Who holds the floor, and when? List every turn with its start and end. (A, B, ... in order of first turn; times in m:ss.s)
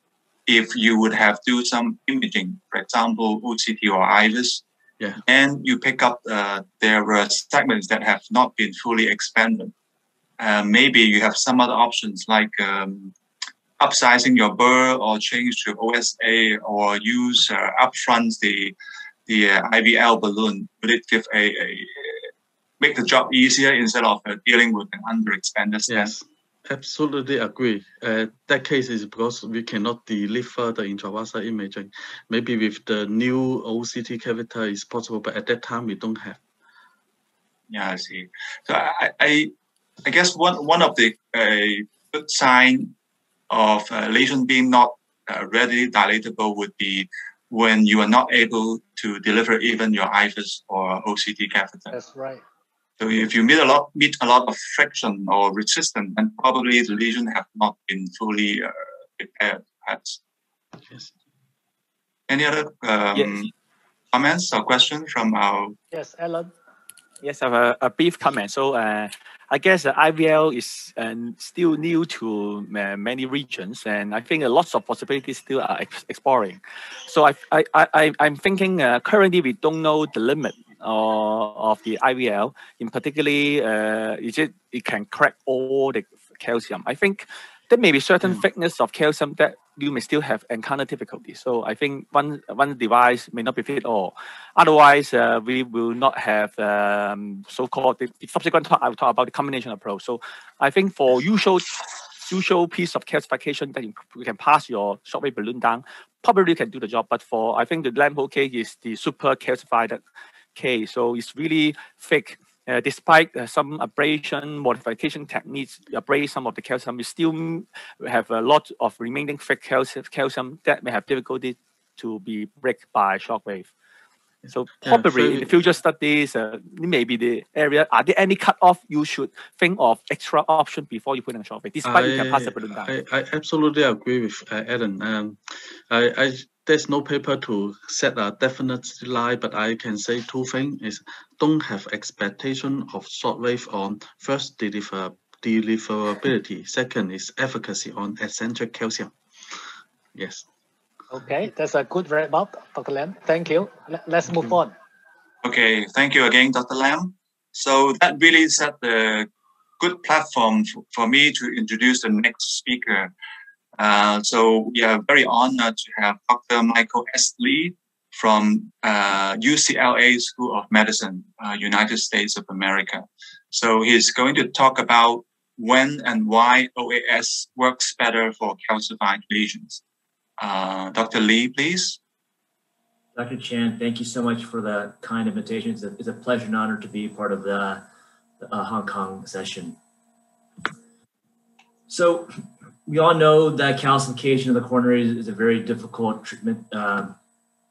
0:00.5-0:04.6 A
0:05.2-0:09.7 A
0:10.4-0:13.1 A
0:13.8-0:18.7 A
0:19.3-0:22.3 A
0:22.8-0:26.1 A
0:25.9-0:36.4 B
0:37.7-0:39.5 A
0:40.0-0:42.9 A
0:43.5-0:51.9 A
0:51.9-0:52.4 C
0:53.0-1:00.2 A
1:00.7-1:01.1 B
1:02.3-1:03.5 A
1:03.1-1:03.4 D
1:04.1-1:05.8 A
1:05.9-1:06.5 C
1:07.2-1:50.0 D
1:50.5-2:03.7 D
2:04.5-2:05.5 B
2:04.5-2:12.9 D
2:11.8-2:29.1 B
2:30.1-2:30.4 B
2:31.1-2:34.7 C
2:35.4-2:39.3 A
2:39.8-2:43.1 A
2:43.8-2:59.8 A
3:00.4-3:02.0 A
3:03.1-3:07.8 E
3:08.4-3:09.8 E
3:11.9-3:12.3 E
3:12.8-3:17.2 E